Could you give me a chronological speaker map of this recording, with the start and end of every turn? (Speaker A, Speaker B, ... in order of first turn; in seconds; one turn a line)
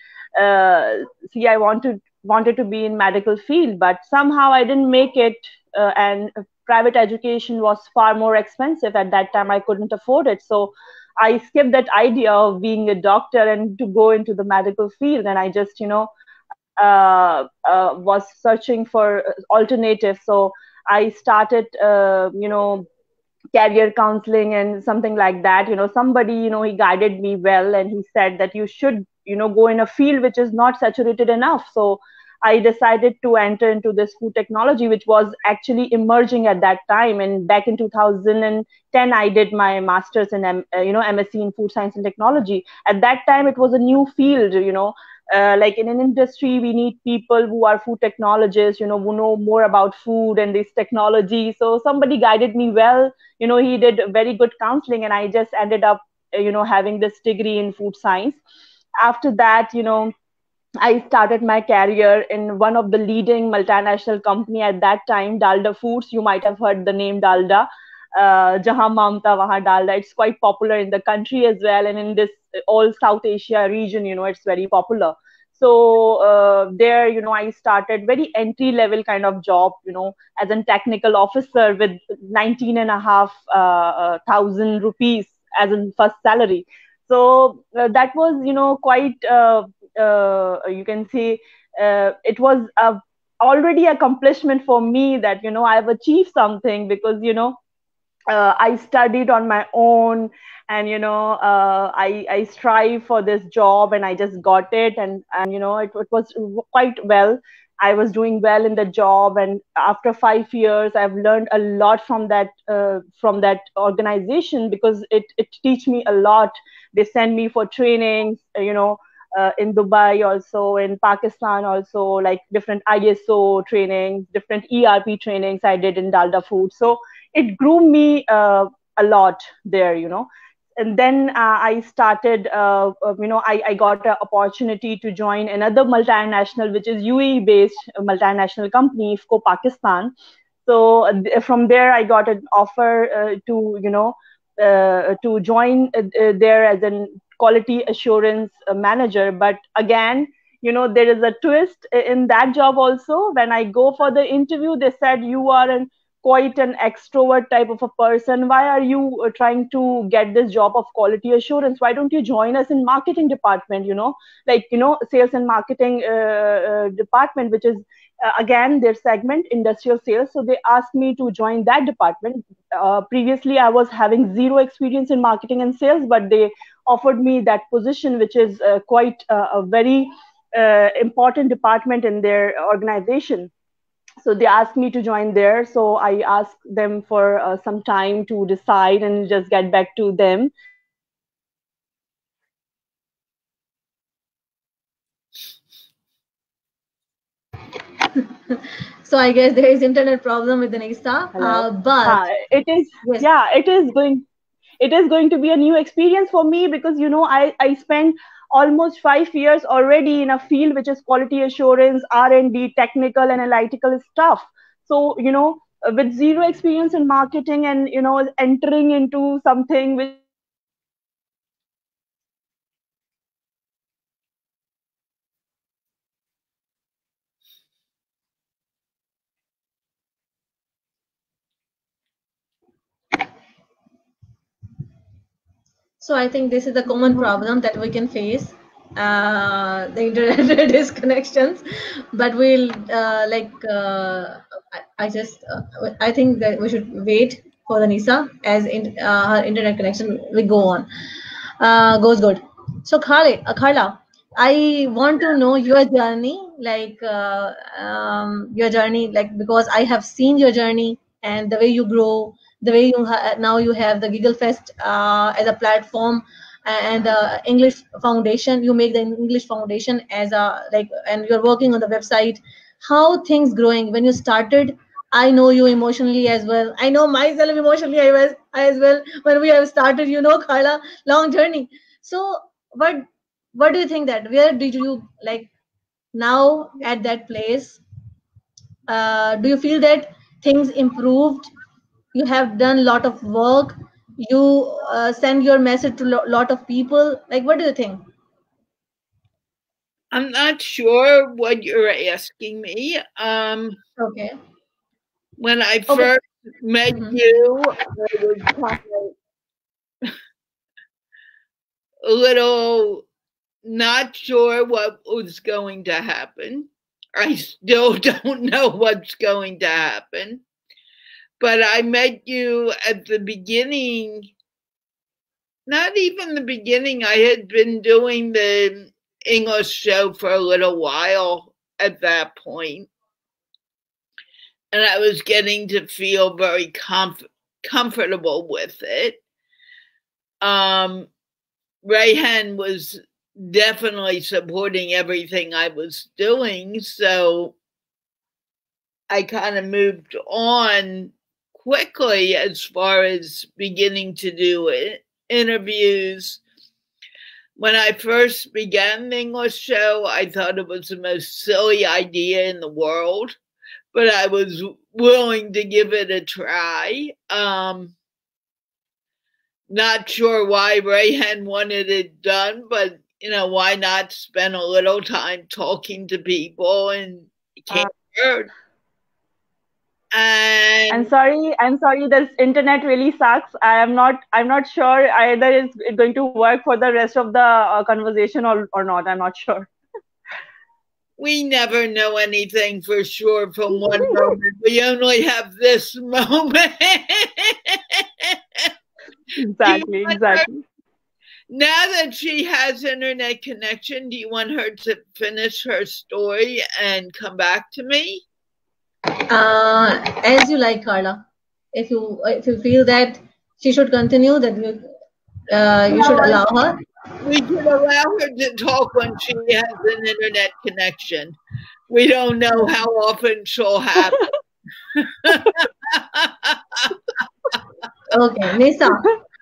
Speaker A: 0.4-16.1
Speaker A: 16.8-22.9
Speaker A: 23.5-58.4
Speaker A: 59.0-60.1
Speaker A: 60.8-97.6
Speaker A: 98.3-140.1
Speaker A: 140.7-183.5
Speaker A: 184.2-190.5
Speaker B: 198.2-202.2
Speaker A: 201.4-204.2
Speaker A: 204.8-220.2
Speaker B: 236.0-250.9
Speaker B: 251.6-285.5
Speaker B: 286.1-287.8
Speaker B: 288.9-291.5
Speaker B: 292.1-298.1
Speaker C: 300.1-303.8
Speaker B: 304.0-304.4
Speaker C: 305.4-309.1
Speaker B: 306.9-307.2
Speaker C: 312.0-313.1
Speaker C: 313.6-320.4
Speaker C: 321.4-324.3
Speaker C: 325.7-332.9
Speaker C: 334.7-339.2
Speaker C: 340.4-341.1
Speaker C: 341.8-347.6
Speaker C: 349.1-356.4
Speaker C: 357.6-363.4
Speaker C: 363.9-367.9
Speaker C: 369.7-378.5
Speaker C: 380.1-381.1
Speaker A: 380.9-389.7
Speaker C: 391.2-398.7
Speaker A: 394.1-394.3
Speaker A: 399.4-400.6
Speaker C: 399.6-400.5
Speaker C: 401.5-408.2
Speaker B: 409.3-414.9
Speaker B: 415.5-416.8
Speaker C: 416.0-416.4
Speaker C: 417.2-421.4
Speaker C: 421.9-424.3
Speaker C: 424.9-427.0
Speaker B: 428.1-429.1